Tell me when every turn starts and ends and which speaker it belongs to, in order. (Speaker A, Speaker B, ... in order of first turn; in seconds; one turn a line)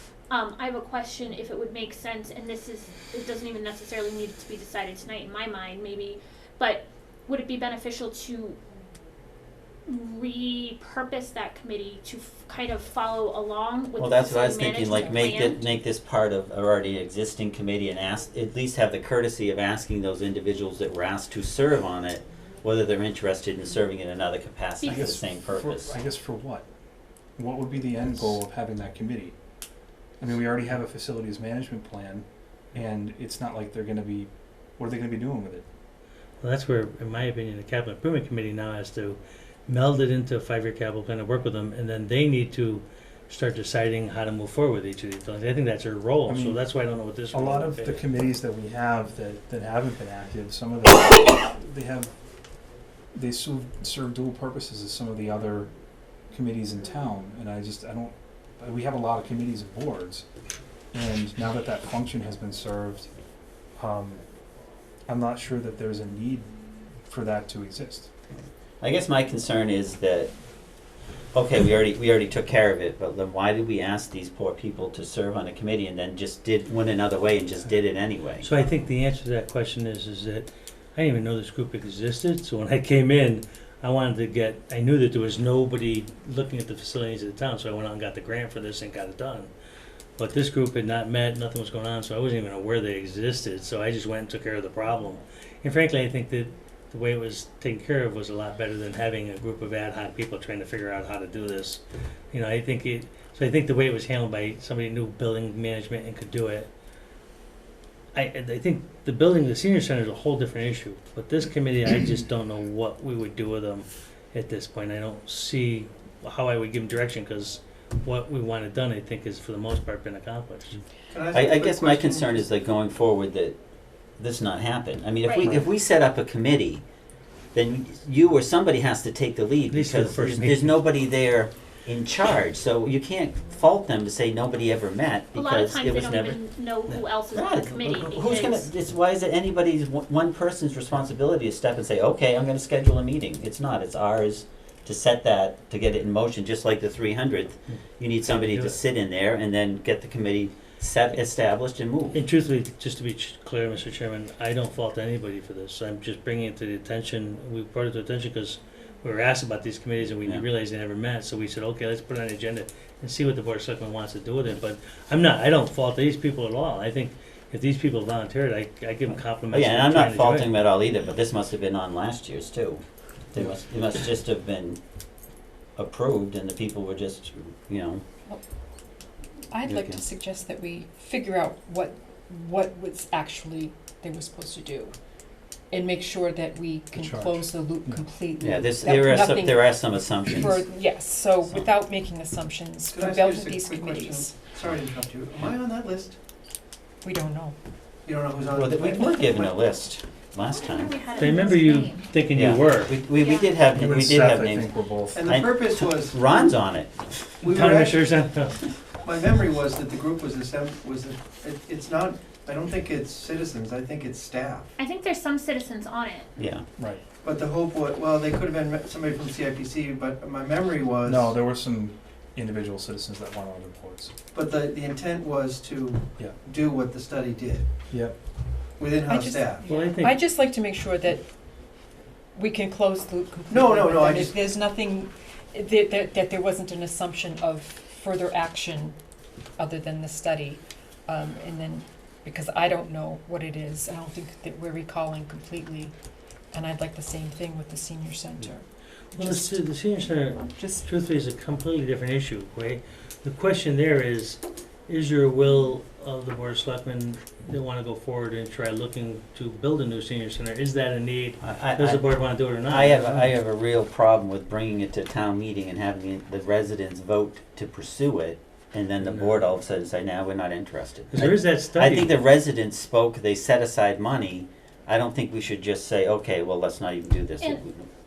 Speaker A: 0.3-8.6
Speaker A: 9.8-15.6
Speaker B: 14.0-26.0
Speaker A: 24.8-25.1
Speaker C: 24.8-26.7
Speaker C: 27.4-29.3
Speaker C: 30.2-35.6
Speaker D: 36.4-48.0
Speaker C: 46.3-46.6
Speaker C: 47.3-52.1
Speaker C: 53.1-55.7
Speaker C: 56.3-60.2
Speaker C: 60.9-63.1
Speaker C: 63.8-64.2
Speaker C: 65.1-66.5
Speaker C: 67.0-68.1
Speaker B: 68.3-70.3
Speaker B: 71.3-78.5
Speaker D: 78.4-89.5
Speaker D: 90.2-106.7
Speaker D: 108.1-120.8
Speaker E: 121.1-122.5
Speaker B: 121.3-123.5
Speaker B: 124.2-126.8
Speaker A: 125.2-125.6
Speaker B: 127.5-152.2
Speaker D: 129.7-130.8
Speaker A: 135.3-138.7
Speaker D: 148.3-148.8
Speaker D: 152.1-170.5
Speaker B: 169.5-172.8
Speaker B: 173.3-174.8
Speaker B: 175.8-178.0
Speaker F: 179.5-184.9
Speaker B: 179.6-180.0
Speaker F: 185.7-194.4
Speaker C: 186.9-188.0
Speaker B: 188.4-190.7
Speaker E: 192.9-196.2
Speaker F: 197.0-197.6
Speaker E: 198.1-199.6
Speaker B: 198.5-201.0
Speaker A: 200.5-202.1
Speaker D: 201.1-202.9
Speaker F: 201.3-201.6
Speaker B: 202.3-204.7
Speaker A: 203.2-203.6
Speaker C: 203.7-205.3
Speaker E: 205.1-206.6
Speaker B: 205.2-207.4
Speaker E: 207.4-208.1
Speaker D: 207.4-208.7
Speaker E: 209.0-214.7
Speaker A: 214.8-216.3
Speaker B: 216.4-216.6
Speaker E: 217.2-221.3
Speaker C: 221.1-224.1
Speaker E: 224.3-227.7
Speaker C: 227.9-228.2
Speaker E: 228.8-229.6
Speaker F: 229.1-231.3
Speaker D: 229.7-230.2
Speaker F: 232.3-238.9
Speaker E: 233.5-234.4
Speaker F: 239.6-245.9
Speaker F: 246.5-249.4
Speaker D: 249.1-263.3
Speaker B: 261.4-262.0
Speaker B: 262.6-277.9
Speaker D: 269.0-269.5
Speaker D: 271.1-272.1